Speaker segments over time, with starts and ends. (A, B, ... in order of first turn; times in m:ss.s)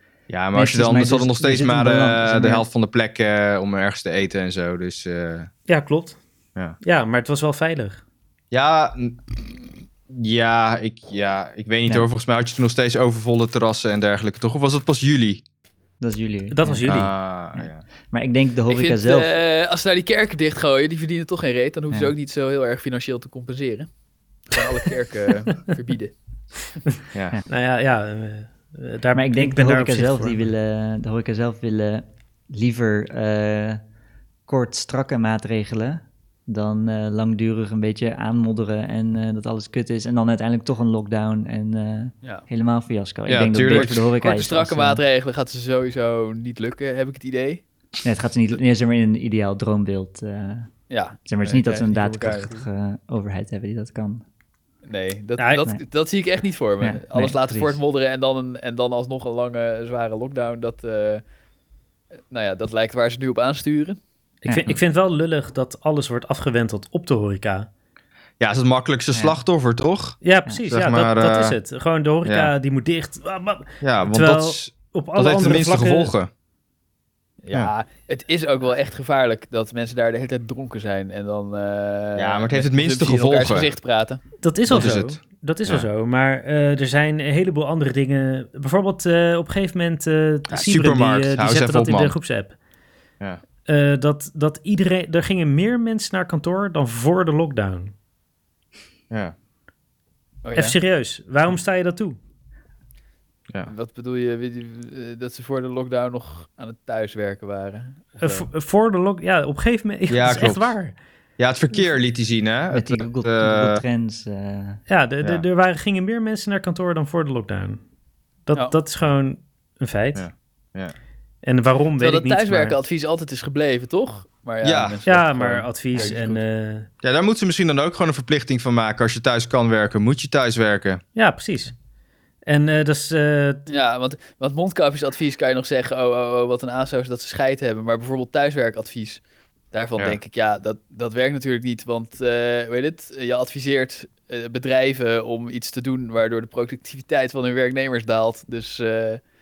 0:00.3-0:05.5 A
0:00.5-0:02.6 B
0:05.7-0:06.2 C
0:06.8-0:08.0 C
0:08.5-0:09.4 A
0:10.1-0:15.4 A
0:16.0-0:19.3 B
0:16.5-0:17.1 C
0:16.8-0:17.8 A
0:18.7-0:23.9 D
0:24.5-0:26.1 D
0:27.1-0:27.4 A
0:27.5-0:30.4 C
0:29.1-0:33.8 B
0:34.5-0:45.0 B
0:43.3-0:44.0 A
0:43.5-0:47.6 D
0:48.0-0:50.7 B
0:50.9-0:52.6 D
0:51.2-0:54.2 B
0:54.8-1:01.2 D
0:55.4-0:55.7 C
0:56.8-0:57.8 B
1:02.3-1:04.0 D
1:04.4-1:07.7 C
1:04.4-1:04.7 B
1:08.4-1:10.2 A
1:09.1-1:09.4 B
1:10.2-1:16.1 C
1:10.7-1:11.6 A
1:12.2-1:12.5 A
1:13.8-1:16.3 A
1:17.4-1:24.2 D
1:22.2-1:23.7 A
1:24.4-1:32.6 C
1:24.7-1:25.9 A
1:30.5-1:32.1 A
1:33.6-1:37.9 C
1:39.1-1:39.3 A
1:40.4-1:40.8 D
1:40.5-1:42.2 C
1:43.6-1:48.4 D
1:48.2-1:51.0 C
1:50.1-1:50.7 A
1:51.4-1:53.8 A
1:52.7-1:54.8 B
1:54.9-1:57.8 C
1:58.4-2:00.2 C
2:00.1-2:00.9 A
2:01.4-2:02.8 C
2:02.0-2:06.4 D
2:04.6-2:05.0 A
2:05.0-2:06.9 C
2:07.0-2:11.0 A
2:11.1-2:11.7 C
2:12.4-2:13.6 C
2:13.7-2:19.2 D
2:19.7-2:29.2 D